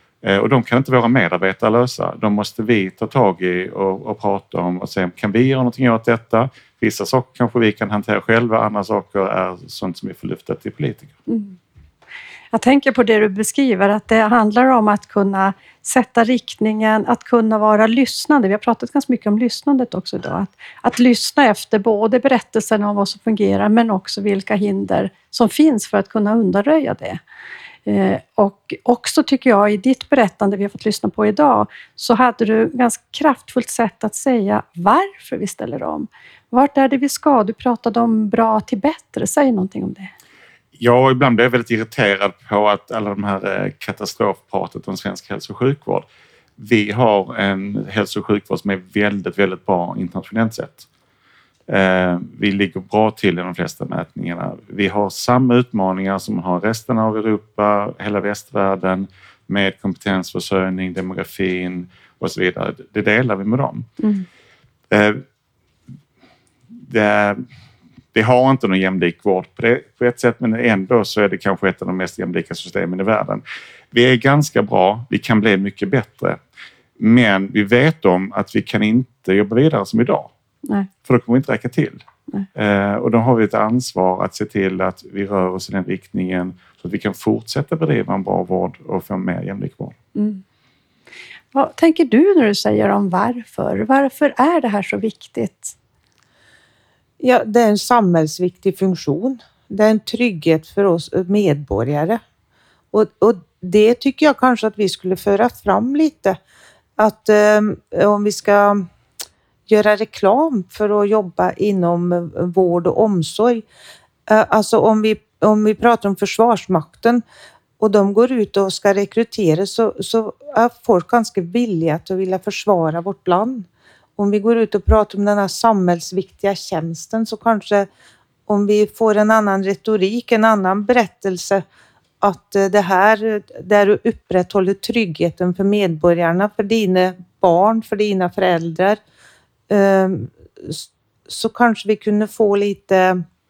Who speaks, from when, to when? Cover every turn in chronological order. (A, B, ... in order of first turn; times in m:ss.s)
0:00.2-0:11.1 A
0:11.3-0:11.6 B
0:12.5-0:27.2 B
0:27.8-0:40.1 B
0:40.8-0:46.0 A
0:46.6-0:50.8 A
0:51.7-1:03.9 A
1:04.0-1:04.2 B
1:04.9-1:05.2 A
1:06.8-1:07.4 A
1:08.1-1:16.4 A
1:17.0-1:20.3 A
1:21.0-1:22.0 A
1:22.5-1:30.0 A
1:30.1-1:30.4 B
1:31.5-1:35.7 B
1:37.2-1:42.2 C
1:42.9-1:46.4 C
1:47.0-1:48.9 C
1:49.7-1:53.6 C
1:54.3-1:57.2 C
1:57.8-2:07.9 C
2:08.5-2:11.6 C
2:12.2-2:19.0 C
2:19.7-2:23.2 C